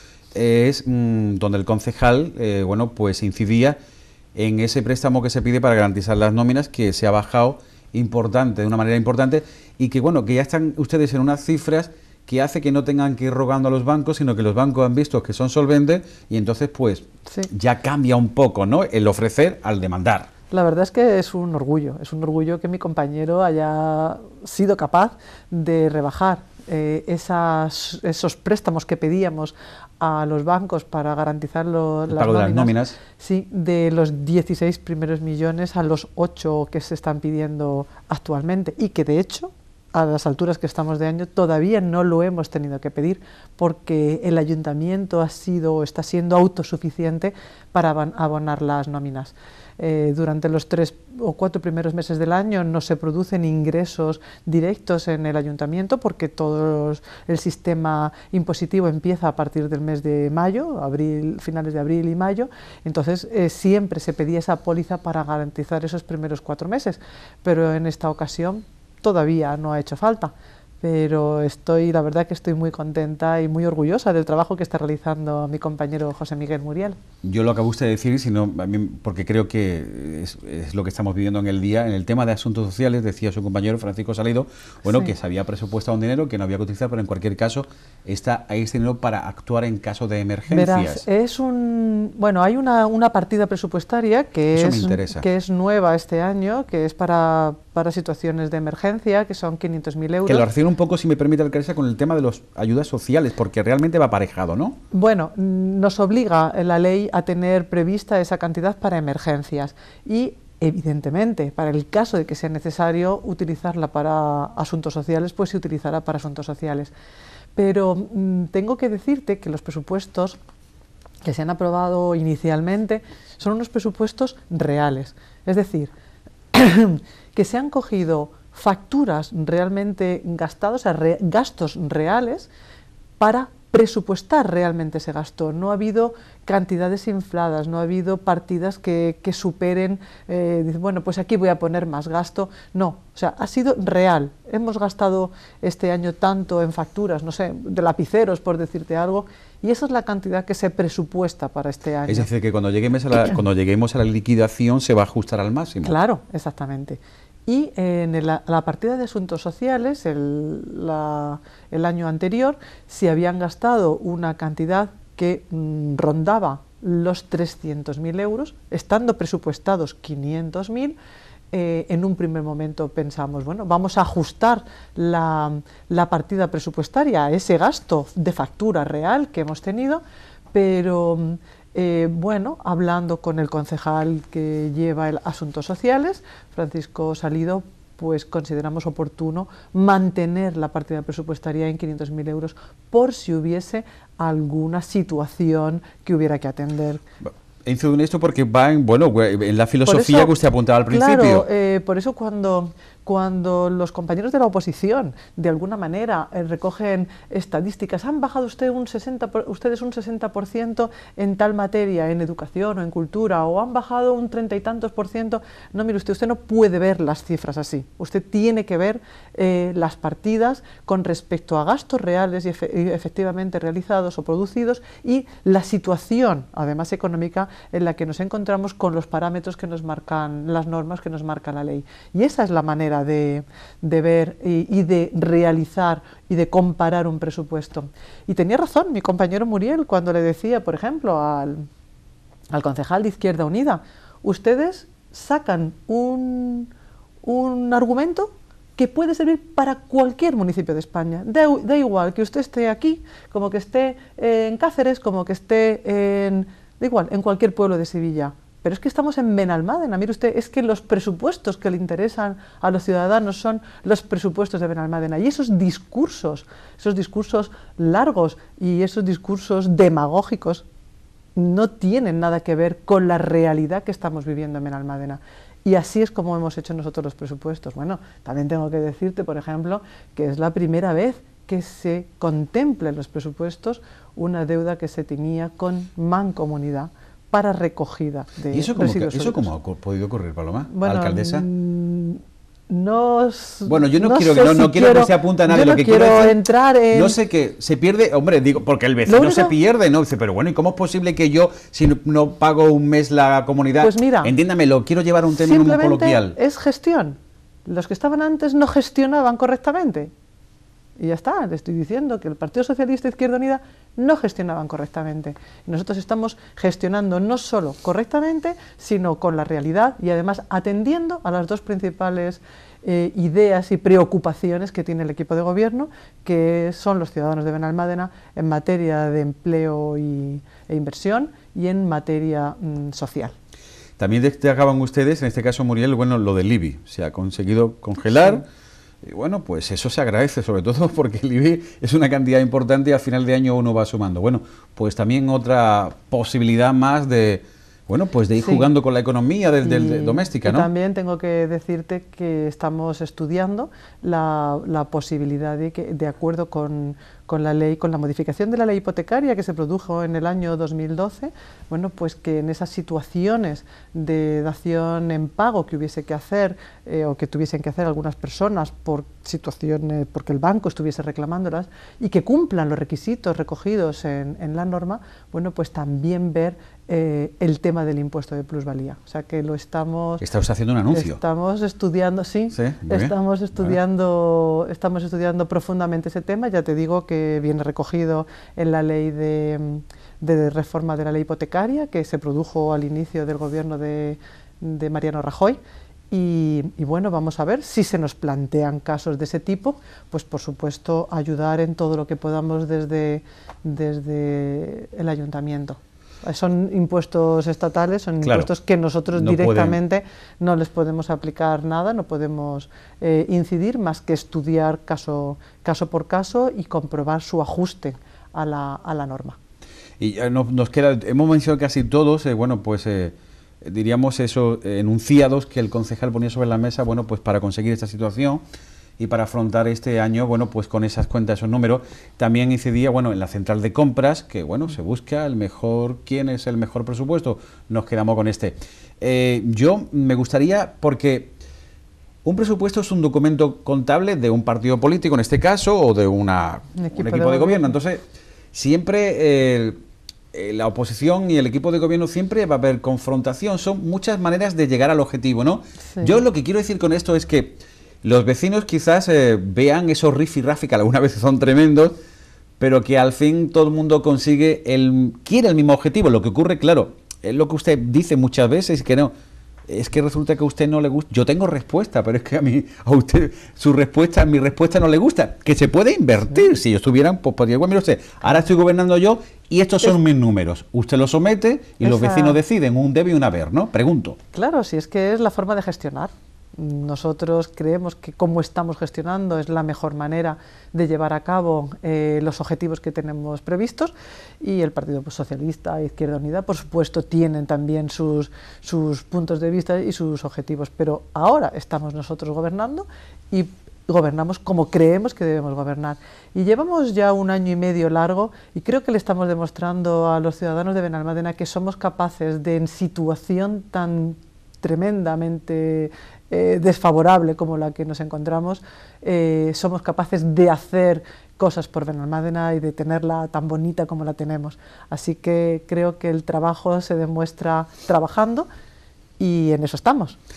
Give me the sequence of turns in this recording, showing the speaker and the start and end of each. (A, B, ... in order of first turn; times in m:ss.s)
0:00.3-0:03.8 A
0:04.4-0:20.3 A
0:20.5-1:17.0 B
0:32.1-0:33.0 A
1:17.2-1:31.0 A
1:24.8-1:25.1 B
1:30.5-1:40.5 B
1:34.5-1:35.2 A
1:40.2-1:44.8 A
1:44.9-1:56.9 B
1:57.6-2:00.4 B
2:01.2-2:05.9 B
2:06.5-2:12.5 B
2:13.2-2:32.3 B
2:32.1-2:36.0 A
2:35.8-2:51.0 B
2:51.5-3:00.0 B
3:00.5-3:17.0 B
3:17.2-3:21.5 A
3:19.9-3:20.3 B
3:20.9-4:01.7 B
4:02.5-4:06.7 B
4:07.2-4:30.6 B
4:31.4-4:49.5 B
4:48.5-4:51.5 A
4:50.7-4:57.2 B
4:53.7-4:56.4 A
4:56.9-5:06.4 A
4:59.1-4:59.6 B
5:03.8-5:04.3 B
5:05.3-5:10.1 B
5:11.0-5:33.4 B
5:34.0-5:38.4 A
5:39.0-5:50.7 A
5:48.4-5:48.7 B
5:49.6-6:20.3 B
6:20.2-6:21.2 A
6:20.9-6:35.6 B
6:22.5-6:23.8 A
6:36.1-6:59.4 B
6:48.2-6:48.5 A
6:49.1-6:49.8 A
7:00.0-7:08.4 A
7:09.0-7:21.4 A
7:22.2-7:29.8 A
7:26.8-7:27.7 B
7:30.3-7:42.0 A
7:42.6-7:49.1 A
7:49.7-8:04.2 A
8:01.8-8:02.4 B
8:04.3-8:48.5 B
8:49.2-8:50.2 B